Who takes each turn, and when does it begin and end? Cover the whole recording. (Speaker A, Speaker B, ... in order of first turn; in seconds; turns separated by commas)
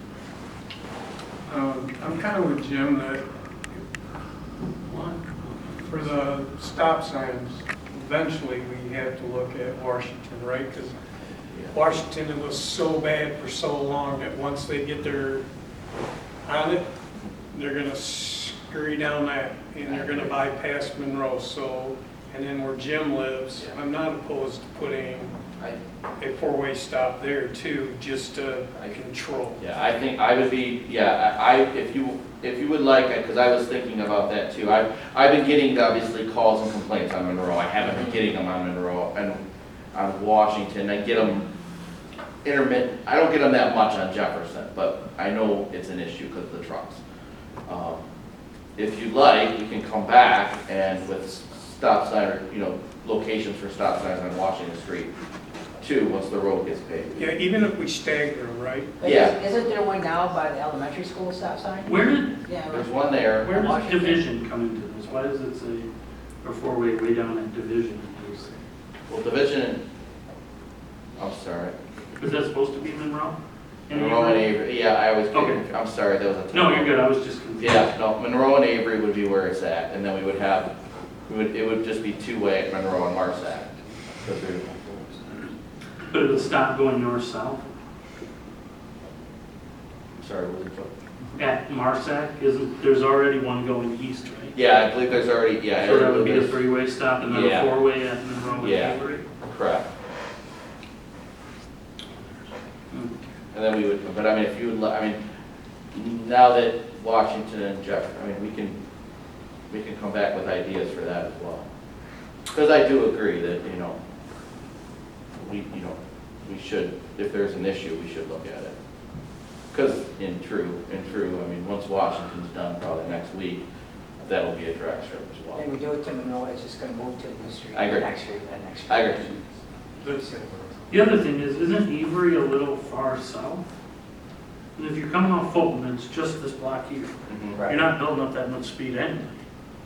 Speaker A: 1.5-3.3, Speaker B: 4.9-6.0, Speaker A: 5.9-11.0, Speaker C: 11.5-11.8, Speaker A: 11.7-15.4, Speaker A: 16.4-16.9, Speaker A: 17.5-25.4, Speaker C: 19.8-20.4, Speaker A: 26.2-29.6, Speaker C: 29.6-39.4, Speaker C: 39.9-41.5, Speaker C: 42.4-47.0, Speaker C: 47.7-48.0, Speaker C: 48.8-55.1, Speaker C: 55.8-57.3, Speaker A: 57.2-59.0, Speaker D: 59.0-64.2, Speaker C: 59.0-59.4, Speaker B: 61.8-62.4, Speaker C: 62.7-63.7, Speaker B: 63.4-65.9, Speaker B: 66.4-68.6, Speaker C: 69.1-69.8, Speaker C: 71.2-71.8, Speaker B: 72.2-73.4, Speaker B: 73.9-74.5, Speaker C: 73.9-76.9, Speaker B: 75.3-75.7, Speaker B: 76.5-77.9, Speaker C: 77.6-80.7, Speaker C: 81.3-85.4, Speaker B: 86.1-87.6, Speaker C: 90.2-90.9, Speaker B: 91.4-94.6, Speaker C: 94.5-96.6, Speaker B: 95.8-99.2, Speaker C: 97.2-97.7, Speaker C: 98.6-99.9, Speaker C: 103.5-105.2, Speaker C: 105.9-108.8, Speaker C: 109.7-111.7, Speaker C: 112.5-114.0, Speaker C: 115.4-118.7, Speaker C: 119.7-123.7, Speaker C: 124.2-125.6, Speaker D: 125.5-129.4, Speaker C: 127.7-128.1, Speaker C: 128.9-129.3, Speaker A: 130.0-130.4, Speaker D: 130.2-130.4, Speaker B: 130.9-133.6, Speaker B: 134.8-139.4, Speaker C: 137.3-137.6, Speaker D: 137.6-137.9